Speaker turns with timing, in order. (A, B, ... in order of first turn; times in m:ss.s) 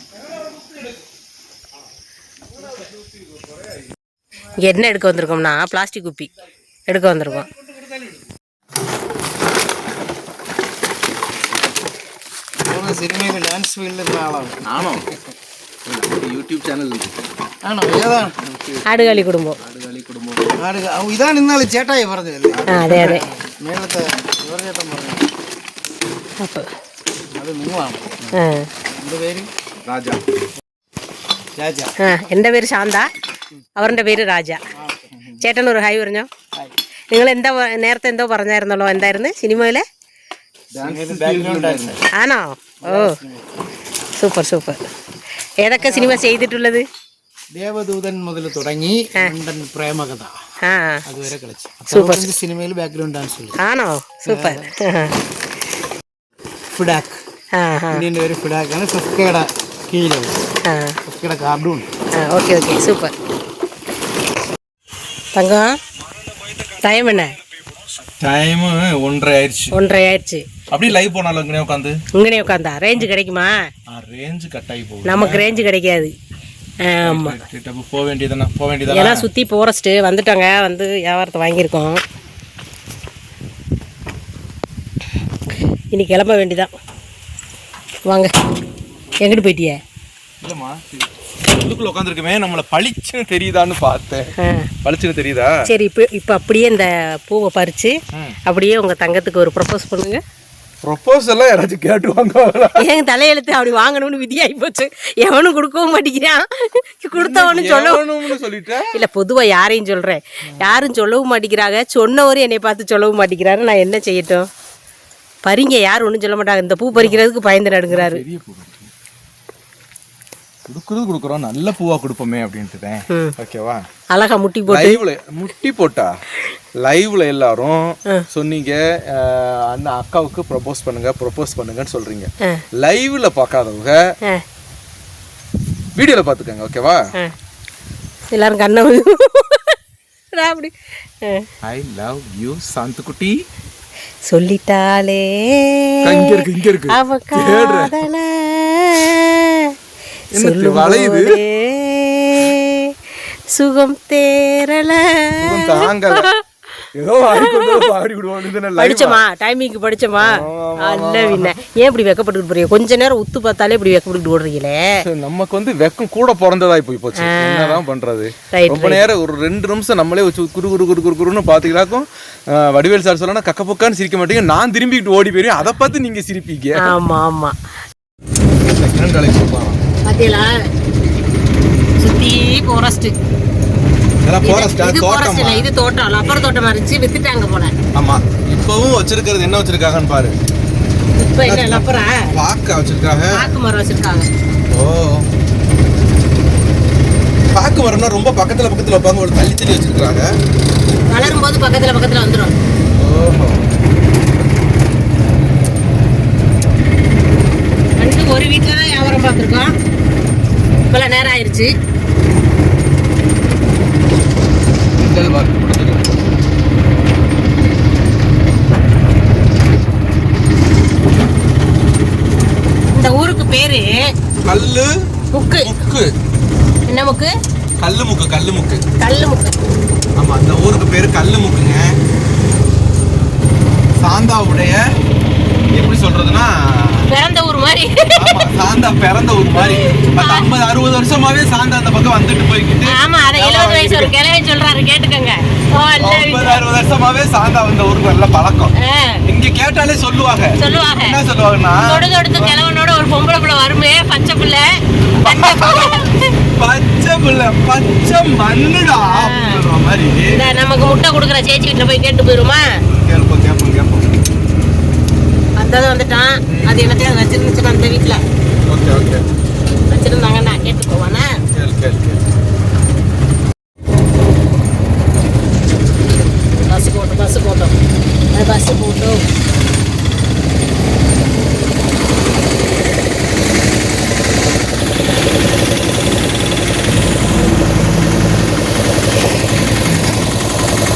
0:04.5-0:06.3 A
0:06.9-0:07.5 A
0:12.6-0:15.2 B
0:14.6-0:15.1 C
0:15.8-0:17.2 C
0:17.6-0:18.4 B
0:18.4-0:20.4 C
0:18.8-0:19.6 A
0:20.4-0:25.3 B
0:22.7-0:23.3 A
0:26.4-0:26.7 A
0:27.3-0:29.5 B
0:28.3-0:28.7 A
0:29.8-0:30.2 C
0:31.5-0:31.9 B
0:32.0-0:33.1 A
0:33.8-0:34.6 A
0:34.8-0:35.2 B
0:35.4-0:36.3 A
0:37.1-0:39.8 A
0:40.7-0:42.0 B
0:40.8-0:42.0 C
0:42.1-0:43.2 A
0:42.8-0:43.5 B
0:44.2-0:44.8 A
0:45.6-0:46.8 A
0:45.8-0:46.2 B
0:47.5-0:50.4 B
0:50.6-0:51.0 A
0:51.0-0:53.6 B
0:51.9-0:52.3 A
0:53.6-0:55.2 A
0:54.2-0:54.7 B
0:56.7-0:57.2 B
0:57.5-0:58.0 A
0:57.9-1:00.4 B
1:00.6-1:01.0 A
1:01.0-1:01.9 B
1:02.1-1:03.1 A
1:05.3-1:05.8 A
1:06.8-1:07.4 A
1:08.0-1:09.7 C
1:09.7-1:10.5 A
1:10.7-1:12.0 C
1:12.1-1:13.6 A
1:13.9-1:15.6 C
1:15.0-1:16.1 A
1:16.8-1:17.4 A
1:17.0-1:19.3 C
1:18.9-1:22.0 A
1:25.9-1:26.7 A
1:28.0-1:28.3 A
1:29.2-1:29.8 A
1:30.4-1:34.3 C
1:34.4-1:34.7 A
1:34.8-1:35.6 C
1:35.6-1:40.2 A
1:40.8-1:42.8 C
1:42.8-1:48.0 A
1:47.1-1:49.0 C
1:48.9-1:54.5 A
1:55.4-1:58.2 A
1:56.9-1:57.2 C
1:57.9-1:58.9 C
2:00.7-2:03.8 C
2:03.1-2:03.3 A
2:04.1-2:05.0 A
2:04.7-2:06.2 C
2:06.8-2:14.0 C
2:16.0-2:17.0 C
2:18.3-2:19.8 A
2:20.3-2:21.5 A
2:21.6-2:23.4 C
2:24.3-2:29.7 A
2:26.0-2:28.0 C
2:30.3-2:31.4 C
2:30.4-2:32.9 A
2:33.5-2:36.4 A
2:35.4-2:36.3 C
2:36.9-2:39.2 C
2:37.3-2:37.9 A
2:38.8-2:45.0 A
2:40.2-2:41.5 C
2:45.0-2:56.9 C
2:47.2-2:47.8 A
2:48.5-2:49.1 A
2:56.8-2:57.5 A
2:58.6-2:59.8 C
3:00.0-3:00.5 A
3:02.0-3:03.1 A
3:04.2-3:05.7 C
3:04.4-3:07.7 A
3:07.9-3:10.3 C
3:11.1-3:12.2 A
3:11.4-3:13.5 C
3:13.3-3:14.3 A
3:14.7-3:15.2 C
3:17.5-3:20.3 C
3:21.1-3:22.5 A
3:23.0-3:23.6 C
3:28.0-3:29.7 A
3:30.9-3:31.7 A
3:35.0-3:36.1 C
3:42.9-3:43.9 A
3:44.4-3:44.9 C
3:45.3-3:45.7 A
3:45.6-3:46.1 C
3:46.9-3:47.3 A
3:47.8-3:48.8 C
3:49.0-3:49.5 A
3:50.2-3:52.0 C
3:54.0-3:54.8 C
3:55.7-3:57.1 C
3:57.1-3:58.4 A
3:58.2-4:04.1 C
3:59.6-4:00.5 A
4:02.9-4:06.6 A
4:06.0-4:08.7 C
4:08.8-4:09.2 A
4:09.2-4:12.6 C
4:10.6-4:11.2 A
4:11.8-4:16.3 A
4:15.2-4:16.0 C
4:16.6-4:20.4 C
4:19.0-4:19.6 A
4:20.3-4:22.8 A
4:22.9-4:24.0 C
4:25.6-4:28.2 A
4:26.5-4:26.9 C
4:28.7-4:29.2 C
4:29.9-4:31.4 A
4:31.5-4:32.2 C
4:36.6-4:37.7 A
4:38.3-4:39.3 A